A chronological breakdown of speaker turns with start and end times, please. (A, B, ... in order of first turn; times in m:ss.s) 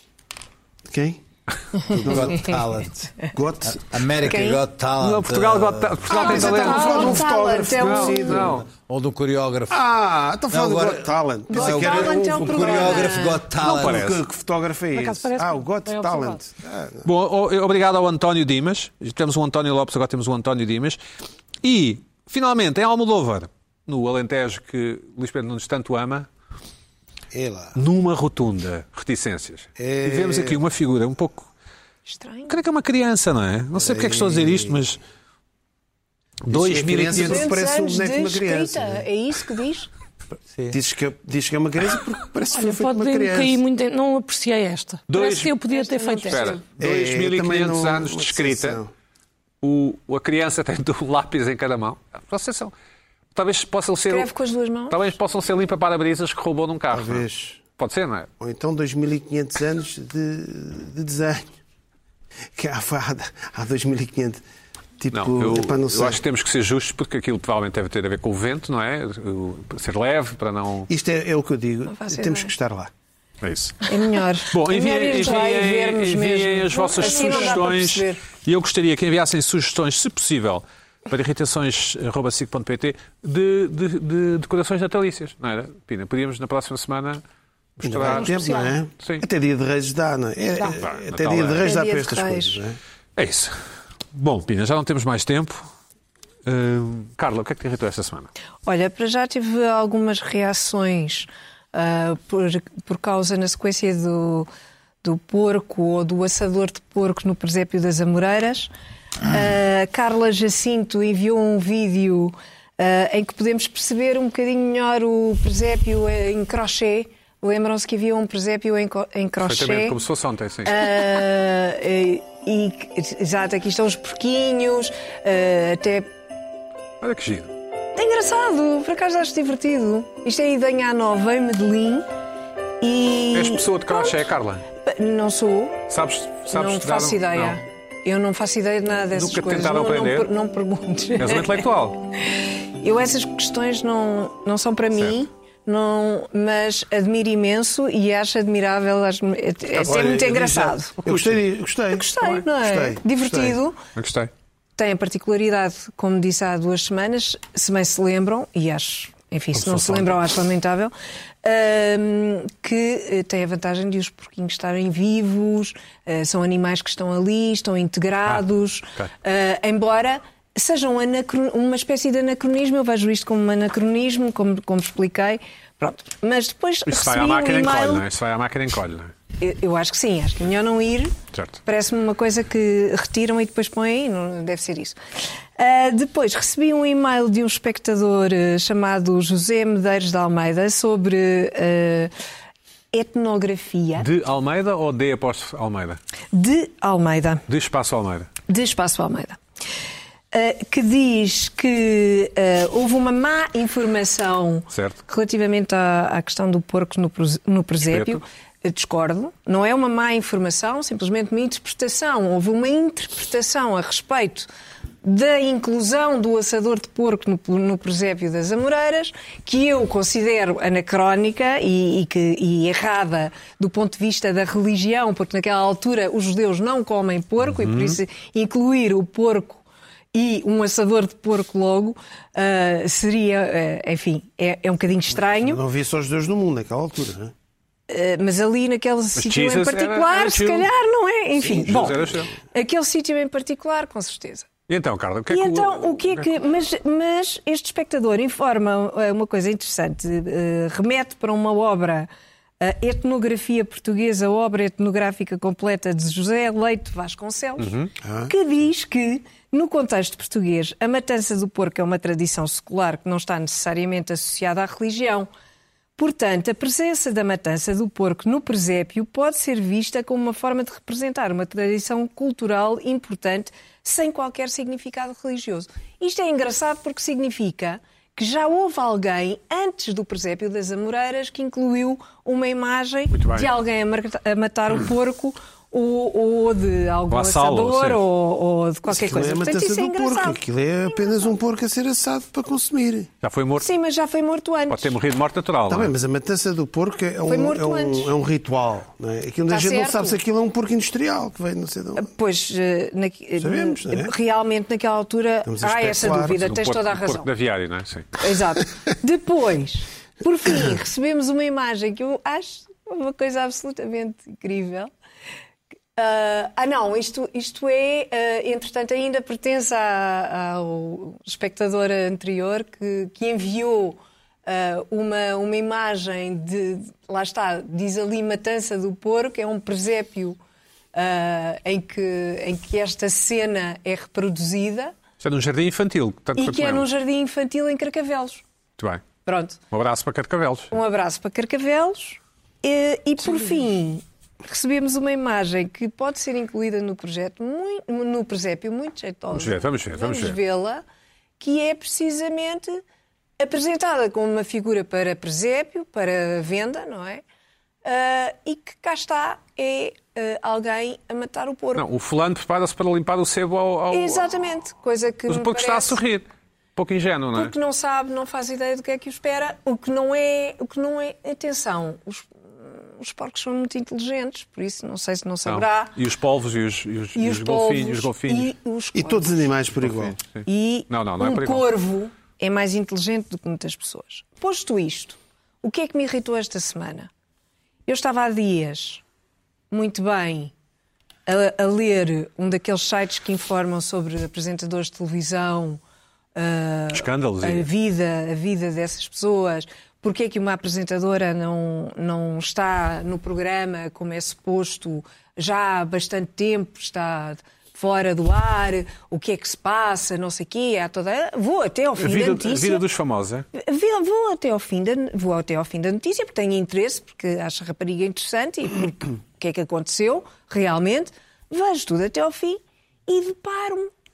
0:00.9-0:01.2 A
0:01.9-0:02.5 B
0:01.9-0:06.1 C
0:01.9-0:02.5 A
0:03.3-0:03.9 A
0:04.2-0:04.6 B
0:05.0-0:07.2 D
0:06.1-0:08.5 B
0:06.1-0:07.2 E
0:06.1-0:08.6 A
0:07.7-0:08.7 D
0:08.4-0:09.8 C
0:09.7-0:17.1 A
0:10.5-0:14.1 C
0:11.5-0:13.5 B
0:13.6-0:14.2 D
0:14.9-0:16.4 E
0:17.0-0:21.0 D
0:21.6-0:26.3 D
0:27.3-0:27.8 A
0:27.7-0:31.5 D
0:29.8-0:30.6 A
0:32.0-0:32.6 B
0:32.5-0:35.0 D
0:33.8-0:34.9 A
0:36.4-0:37.5 D
0:36.5-0:39.0 A
0:37.1-0:39.9 B
0:40.7-0:43.6 A
0:42.5-0:46.6 E
0:45.1-0:45.5 D
0:45.7-0:46.6 B
0:46.2-0:48.8 D
0:46.8-0:48.9 A
0:49.6-0:52.7 D
0:53.3-0:54.3 D
0:54.1-0:55.0 B
0:54.9-0:58.3 D
0:56.9-0:57.6 A
0:58.4-1:01.6 A
1:02.5-1:04.4 A
1:05.0-1:06.2 A
1:05.1-1:10.9 D
1:10.9-1:12.9 A
1:11.9-1:12.5 B
1:13.4-1:13.9 D
1:13.9-1:18.2 B
1:14.5-1:27.2 D
1:17.0-1:17.5 E
1:27.8-1:28.3 D
1:27.8-1:32.8 A
1:28.2-1:28.8 B
1:29.0-1:29.2 D
1:30.6-1:31.7 D
1:31.6-1:32.6 B
1:33.2-1:35.7 D
1:36.4-1:38.3 D
1:38.6-1:44.5 B
1:45.0-1:48.7 B
1:49.3-2:00.0 B
1:59.4-2:00.9 D
2:00.6-2:06.1 B
2:07.0-2:07.5 D
2:08.0-2:12.0 B
2:12.8-2:14.2 B
2:13.3-2:14.7 D
2:14.8-2:15.8 B
2:15.9-2:17.6 D
2:16.5-2:21.6 B
2:19.1-2:20.3 D
2:21.2-2:22.0 D
2:22.2-2:31.1 B
2:29.7-2:33.6 A
2:31.0-2:31.4 D
2:31.9-2:33.8 B
2:34.0-2:34.3 D
2:34.8-2:58.0 B
2:39.5-2:40.2 D
2:56.8-2:59.1 D
2:59.4-3:01.1 B
3:01.3-3:01.6 D
3:01.6-3:05.0 B
3:05.6-3:12.1 B
3:12.9-3:14.0 B
3:14.0-3:16.0 D
3:16.3-3:17.4 B
3:17.5-3:18.3 D
3:18.5-3:19.4 B
3:20.3-3:34.5 B
3:24.7-3:25.0 D
3:27.8-3:28.2 D
3:35.0-3:55.6 B
3:47.4-3:48.0 D
3:55.3-3:57.3 A
3:57.9-4:04.5 B
3:59.2-4:00.7 D
4:01.4-4:02.3 D
4:04.7-4:06.3 D
4:05.3-4:12.1 B
4:12.6-4:25.3 B
4:17.6-4:17.9 D
4:18.0-4:18.3 A
4:26.0-4:51.3 B
4:43.1-4:43.5 D
4:47.1-4:48.0 D
4:48.9-4:53.1 A
4:53.2-4:53.7 D
4:53.6-4:55.0 B
4:54.7-4:55.9 D
4:55.7-5:02.1 A
4:57.2-4:58.1 B
4:59.5-5:00.2 B
5:02.0-5:07.3 B
5:03.4-5:04.1 A
5:05.4-5:06.4 A
5:06.2-5:08.2 D
5:08.2-5:14.9 B
5:16.0-5:30.4 B
5:30.9-5:34.9 B
5:35.2-5:36.9 D
5:36.4-5:38.4 B
5:38.8-5:39.0 D
5:39.2-5:39.6 B
5:39.7-5:40.7 D
5:40.7-5:50.8 B
5:49.3-5:50.4 D
5:51.4-5:52.8 B
5:53.4-5:57.2 B
5:57.8-6:01.8 B
6:01.7-6:04.3 D
6:03.9-6:06.0 B
6:05.3-6:07.5 D
6:07.3-6:15.9 B
6:15.4-6:18.5 D
6:17.2-6:19.4 B
6:18.9-6:20.2 A
6:19.8-6:21.7 D
6:20.4-6:27.1 B
6:27.8-6:29.0 B
6:29.7-6:30.5 B
6:31.2-6:35.8 B
6:36.3-6:52.8 B
6:36.9-6:37.7 D
6:52.0-6:53.5 D
6:53.5-7:03.9 B